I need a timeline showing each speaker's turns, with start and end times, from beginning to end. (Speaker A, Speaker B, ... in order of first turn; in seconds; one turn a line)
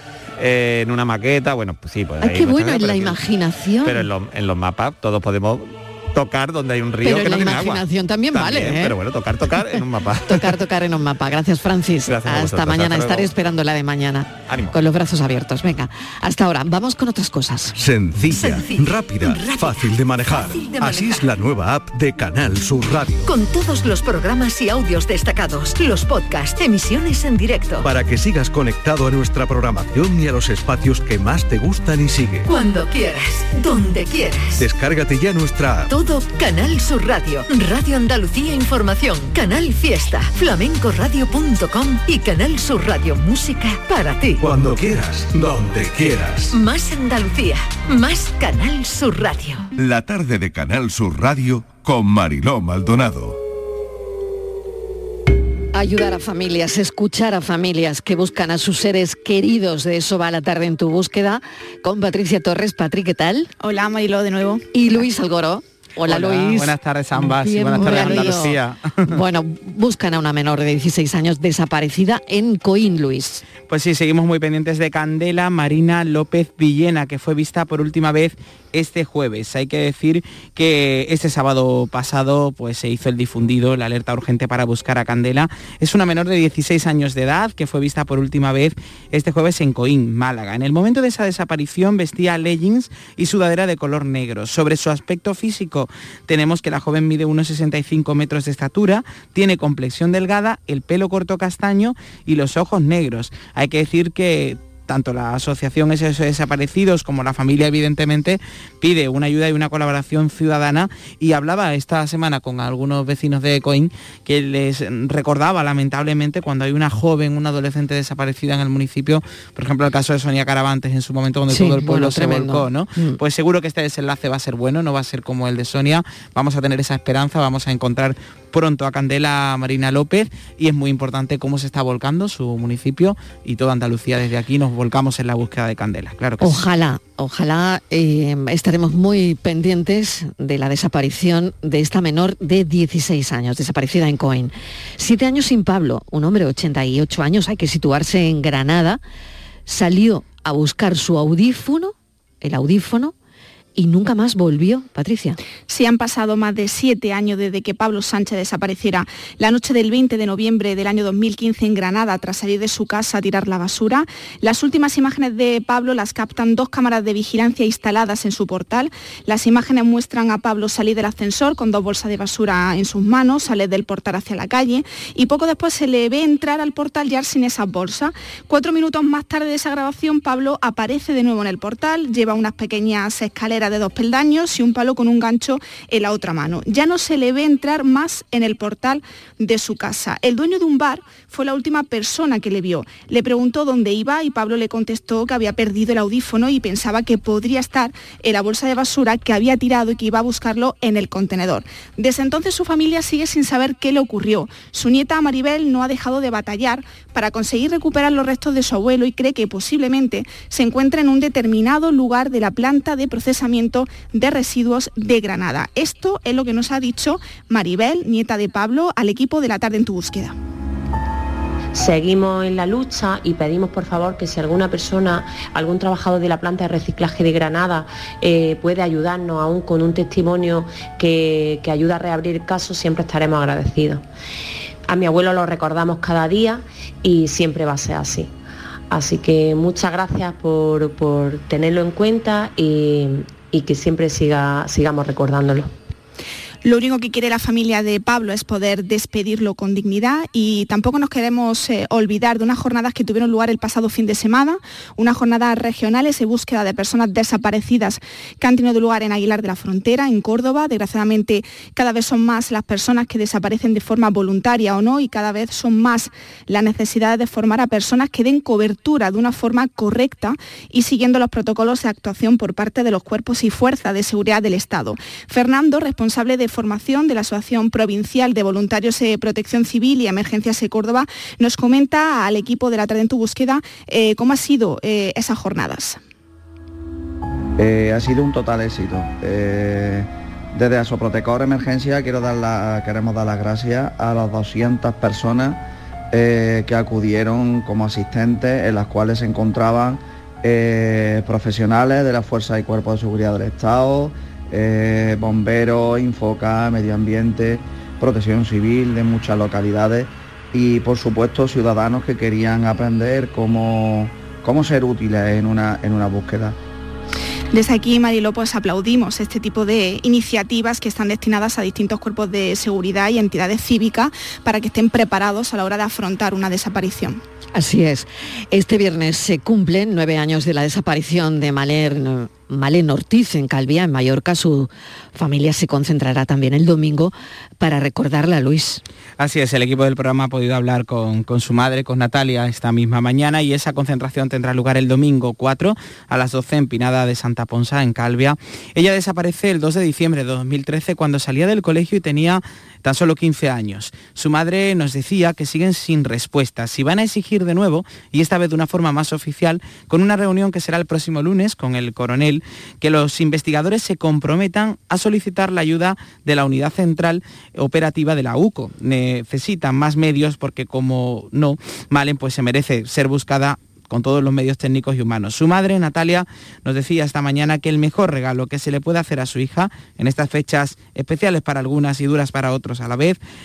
Speaker A: 0.4-3.2
Speaker B: 2.2-4.1
Speaker A: 3.8-10.5
Speaker B: 7.0-8.9
Speaker B: 10.3-17.8
Speaker A: 12.1-13.3
Speaker A: 14.5-14.8
Speaker C: 17.8-23.3
Speaker D: 18.4-19.8
Speaker D: 20.4-21.1
Speaker D: 23.3-27.9
Speaker C: 27.8-32.5
Speaker D: 32.5-34.6
Speaker C: 34.6-35.9
Speaker D: 35.9-44.4
Speaker C: 44.4-46.5
Speaker D: 46.5-49.7
Speaker E: 49.8-53.4
Speaker B: 55.7-63.5
Speaker F: 63.6-64.7
Speaker B: 64.7-73.5
Speaker G: 66.1-69.1
Speaker G: 73.6-136.6
Speaker B: 121.5-123.2
Speaker B: 136.4-149.0
Speaker B: 149.7-153.1
Speaker B: 153.8-155.4
Speaker F: 155.7-220.4
Speaker H: 221.7-234.0
Speaker H: 234.9-238.3
Speaker H: 238.9-245.7
Speaker F: 246.6-286.0
Speaker I: 287.6-316.6
Speaker F: 317.5-327.2
Speaker B: 327.5-338.8
Speaker G: 339.2-383.2